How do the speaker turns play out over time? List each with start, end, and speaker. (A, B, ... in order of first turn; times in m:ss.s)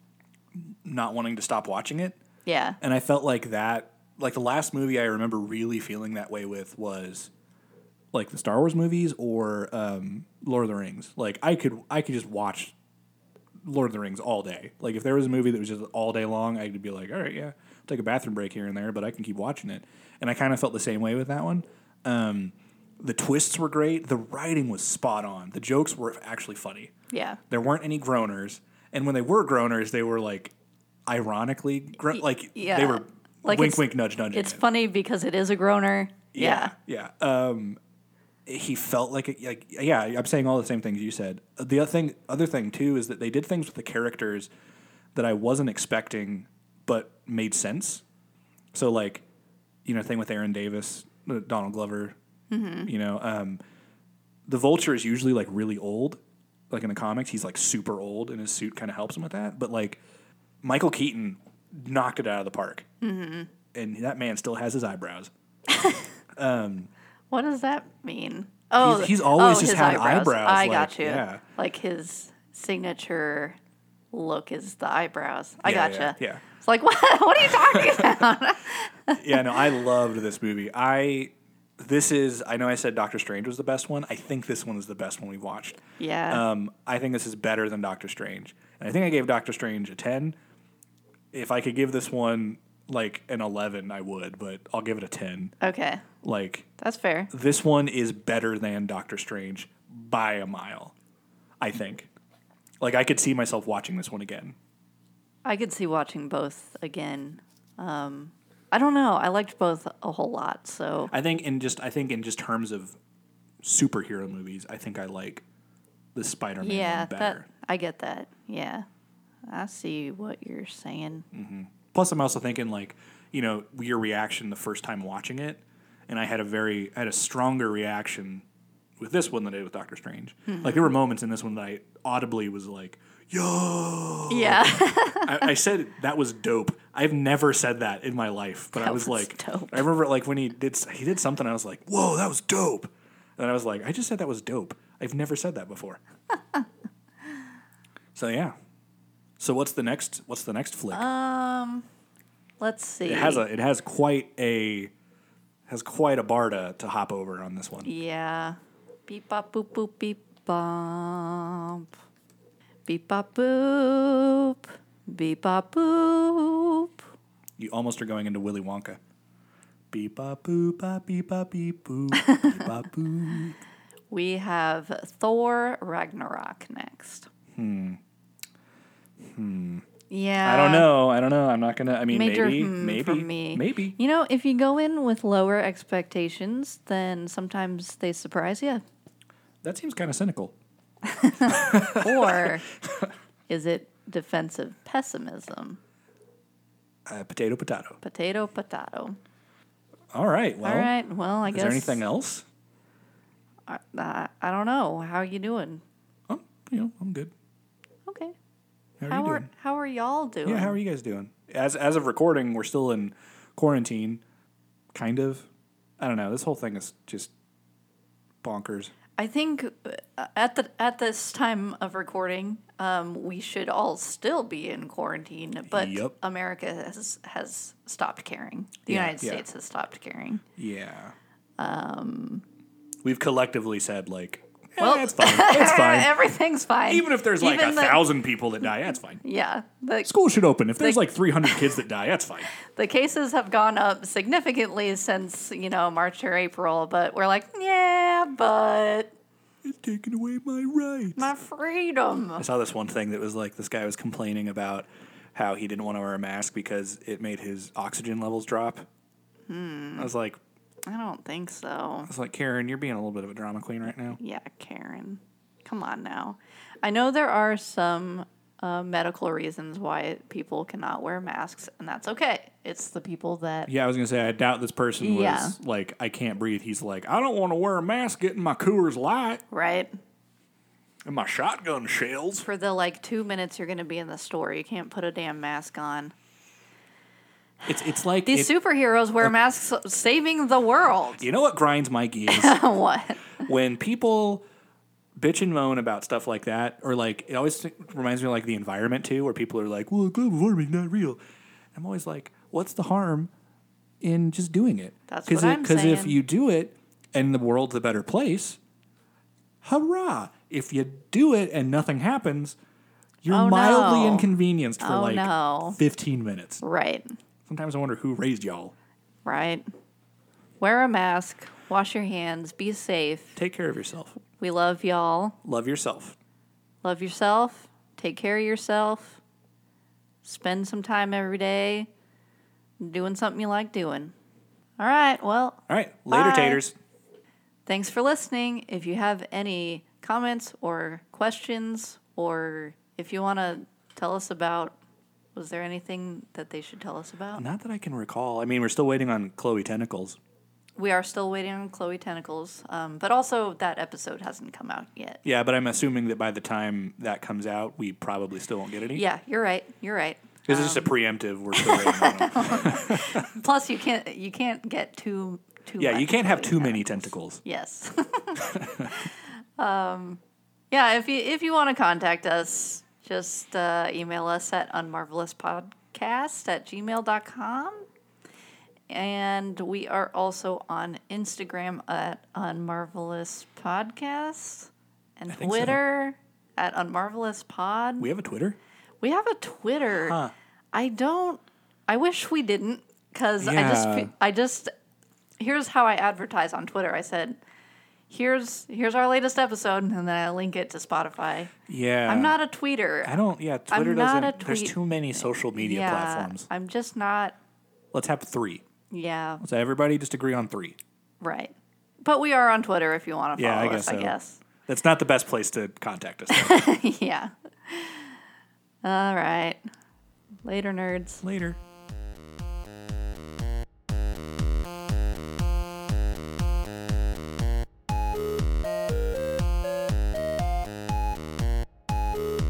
0:00.5-0:02.2 A
0:02.4-0:02.8 B
0:02.8-0:07.3 A
0:08.1-0:12.7 A
0:13.6-0:26.9 A
0:27.1-0:27.4 B
0:27.5-0:30.5 A
0:31.1-0:34.6 A
0:32.1-0:36.7 B
0:36.3-0:37.8 A
0:38.4-0:44.5 A
0:45.1-0:48.0 A
0:48.7-0:49.2 A
0:49.8-0:52.2 A
0:52.5-0:52.9 B
0:52.8-0:53.6 A
0:54.5-0:56.2 A
0:56.7-1:00.0 A
1:00.6-1:02.8 A
1:03.0-1:03.5 B
1:03.7-1:05.3 A
1:05.8-1:06.0 B
1:06.3-1:06.9 A
1:07.3-1:13.6 B
1:08.8-1:11.4 A
1:14.1-1:19.8 B
1:15.6-1:16.4 A
1:17.4-1:18.2 A
1:19.2-1:30.4 A
1:26.0-1:26.4 B
1:31.3-1:35.5 A
1:35.6-1:36.0 B
1:36.2-1:36.7 A
1:36.8-1:37.3 B
1:37.3-1:40.9 A
1:41.6-1:42.1 A
1:42.8-1:44.6 A
1:45.4-1:51.1 B
1:51.1-1:53.0 A
1:53.6-1:55.4 A
1:56.1-1:57.4 A
1:56.6-1:58.8 B
1:59.5-2:01.2 B
2:01.3-2:08.4 A
2:09.0-2:26.0 A
2:10.5-2:10.9 B
2:14.3-2:15.5 B
2:18.7-2:19.8 B
2:28.1-2:28.5 A
2:29.4-2:31.0 A
2:30.9-2:31.8 B
2:32.6-2:33.4 B
2:33.0-2:34.9 A
2:35.7-2:37.9 A
2:37.8-2:41.9 B
2:42.9-2:47.0 B
2:47.6-2:49.0 A
2:49.9-2:53.6 A
2:52.2-2:52.6 B
2:54.1-2:57.3 B
2:57.5-2:58.0 A
2:59.2-2:59.8 A
3:00.1-3:00.9 B
3:00.4-3:04.0 A
3:02.1-3:08.8 B
3:09.6-3:10.5 A
3:11.0-3:12.6 B
3:11.4-3:13.1 A
3:13.5-3:15.8 B
3:17.1-3:18.0 A
3:18.0-3:19.2 B
3:20.1-3:20.9 A
3:20.6-3:22.0 B
3:21.4-3:22.4 A
3:23.7-3:25.8 B
3:26.3-3:27.3 A
3:28.1-3:28.3 B
3:29.0-3:29.5 A
3:29.1-3:30.8 B
3:30.4-3:34.2 A
3:34.9-3:35.5 A
3:36.0-3:37.3 A
3:38.4-3:38.9 A
3:39.2-3:50.4 B
3:45.7-3:46.1 A
3:48.9-3:49.4 A
3:50.6-3:51.1 A
3:51.6-3:52.4 B
3:53.0-3:56.1 A
3:54.8-3:58.0 B
3:56.9-3:59.2 A
3:59.2-4:00.1 B
4:00.0-4:02.5 A
4:00.8-4:01.8 B
4:02.5-4:09.1 B
4:09.6-4:11.3 A
4:11.2-4:12.4 B
4:12.4-4:18.9 A
4:19.5-4:20.1 B
4:20.0-4:20.4 A
4:20.9-4:22.1 B
4:22.1-4:24.2 A
4:24.2-4:33.7 B
4:33.7-4:39.4 A
4:35.0-4:35.6 B
4:39.5-4:40.0 B
4:41.0-4:42.5 A
4:42.4-4:46.1 B
4:47.6-4:48.5 A
4:48.2-4:51.2 B
4:51.2-4:52.6 A
4:52.3-4:53.4 B
4:53.4-4:54.4 A
4:55.2-5:01.2 A
5:01.7-5:03.3 A
5:04.0-5:08.6 A
5:05.1-5:06.2 B
5:09.6-5:12.6 A
5:13.2-5:16.6 A
5:13.3-5:14.3 B
5:14.8-5:15.8 B
5:16.6-5:17.1 B
5:17.5-5:18.7 A
5:19.2-5:19.6 B
5:20.6-5:23.4 B
5:23.4-5:24.2 A
5:24.4-5:25.4 B
5:25.4-5:26.2 A
5:26.8-5:29.2 B
5:30.2-5:31.9 B
5:32.8-5:34.1 B
5:34.8-5:36.6 B
5:35.7-5:36.7 A
5:37.6-5:44.8 B
5:45.3-5:47.4 B
5:47.3-5:50.2 A
5:50.8-5:55.2 B
5:55.2-5:59.0 A
5:58.9-6:00.9 B
6:00.5-6:03.3 A
6:01.5-6:10.2 B
6:05.8-6:07.4 A
6:08.4-6:09.0 A
6:10.7-6:17.8 B
6:18.9-6:28.1 B
6:25.3-6:25.8 A
6:28.0-6:28.6 A
6:29.0-6:30.2 B
6:30.0-6:30.3 A
6:30.7-6:34.7 B
6:33.4-6:34.1 A
6:35.4-6:37.4 B
6:38.1-6:41.5 B
6:41.7-6:42.4 A
6:42.1-6:43.1 B
6:43.0-6:46.5 A
6:43.7-6:47.3 B
6:47.9-6:48.6 A
6:48.9-6:49.4 B
6:49.4-6:50.8 A
6:51.2-6:54.4 B
6:53.4-6:56.7 A
6:56.3-6:58.2 B
6:58.8-6:59.6 B
7:00.4-7:01.2 B
7:01.2-7:01.6 A